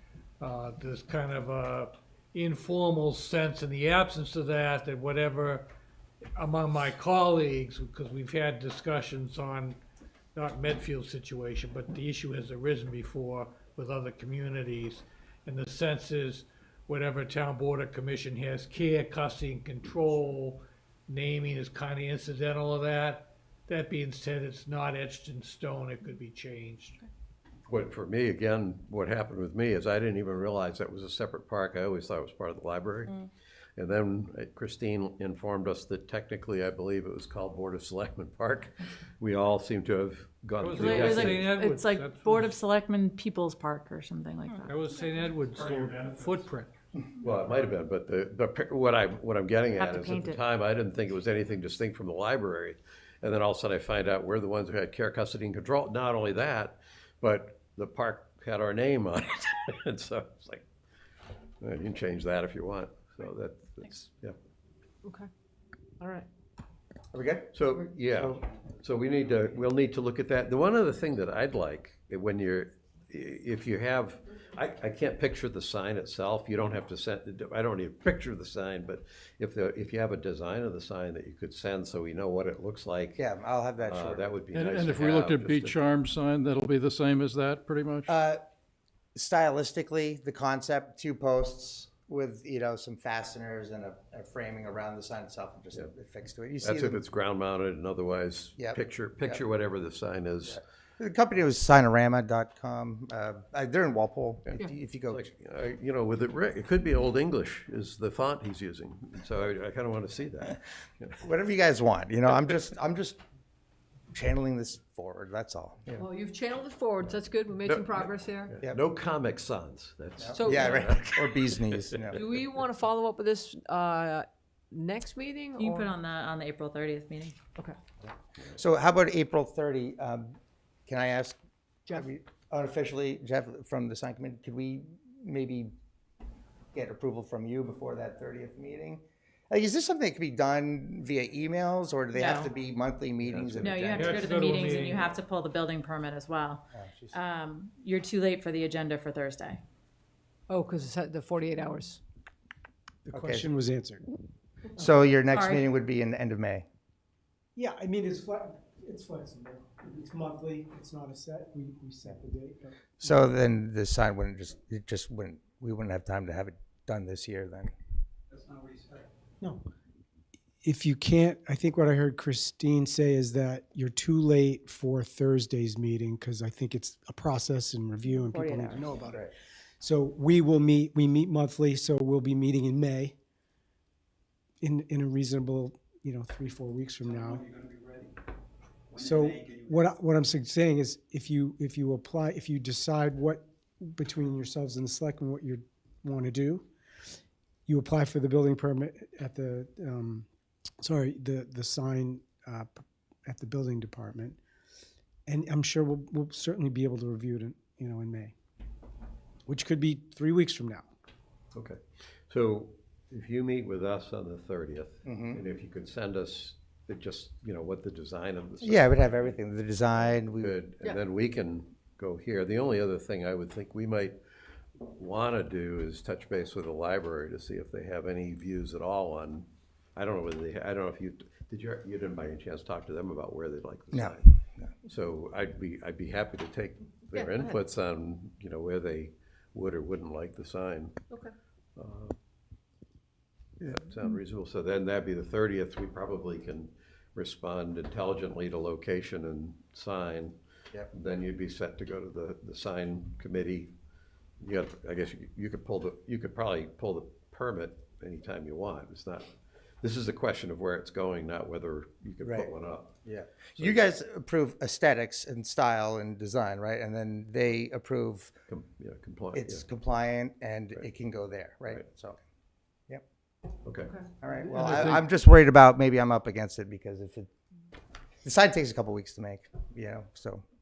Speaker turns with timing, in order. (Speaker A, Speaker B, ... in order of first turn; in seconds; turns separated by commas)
Speaker A: 0.4-5.7, Speaker A: 6.3-9.8, Speaker A: 10.3-27.0, Speaker B: 27.7-33.2, Speaker B: 33.8-41.5, Speaker A: 40.6-42.5, Speaker C: 40.8-44.7, Speaker A: 44.7-46.7, Speaker D: 45.6-46.2, Speaker B: 47.2-60.6, Speaker C: 49.7-50.4, Speaker B: 61.6-64.3, Speaker E: 65.0-65.3, Speaker E: 66.0-66.2, Speaker F: 67.1-67.6, Speaker B: 67.5-83.2, Speaker F: 83.2-84.2, Speaker B: 83.8-85.8, Speaker D: 84.5-88.1, Speaker F: 88.1-88.4, Speaker F: 89.1-97.0, Speaker B: 96.6-100.6, Speaker F: 98.6-99.4, Speaker F: 100.5-105.2, Speaker B: 105.1-111.2, Speaker F: 111.2-113.2, Speaker F: 114.1-116.0, Speaker E: 115.9-118.5, Speaker B: 117.7-122.4, Speaker F: 120.2-122.2, Speaker E: 120.3-120.9, Speaker E: 122.1-125.9, Speaker C: 125.6-127.4, Speaker F: 128.4-130.3, Speaker F: 130.9-131.4, Speaker F: 131.9-135.7, Speaker F: 136.7-144.3, Speaker C: 142.1-142.5, Speaker B: 143.2-144.0, Speaker C: 143.6-149.6, Speaker A: 143.9-145.1, Speaker F: 146.7-147.2, Speaker E: 150.5-152.0, Speaker G: 153.1-154.0, Speaker F: 153.1-153.5, Speaker F: 154.8-156.7, Speaker C: 155.3-155.7, Speaker G: 157.5-163.3, Speaker F: 163.0-167.7, Speaker G: 170.6-179.3, Speaker C: 178.1-178.9, Speaker G: 179.8-183.1, Speaker G: 184.6-187.5, Speaker G: 188.9-196.7, Speaker G: 197.7-200.2, Speaker G: 200.8-204.4, Speaker G: 205.3-208.3, Speaker G: 209.5-210.9, Speaker B: 211.5-219.4, Speaker F: 215.0-215.4, Speaker F: 218.6-220.6, Speaker B: 220.3-224.2, Speaker B: 224.8-234.2, Speaker F: 233.9-234.7, Speaker B: 234.8-241.0, Speaker E: 237.1-237.5, Speaker B: 241.8-242.1, Speaker B: 243.6-250.3, Speaker B: 250.9-253.7, Speaker B: 254.4-259.3, Speaker B: 259.8-262.9, Speaker F: 262.2-262.5, Speaker F: 263.0-268.3, Speaker B: 268.5-269.6, Speaker F: 269.3-272.2, Speaker B: 273.6-274.0, Speaker F: 274.2-277.3, Speaker D: 274.5-275.0, Speaker F: 278.2-280.4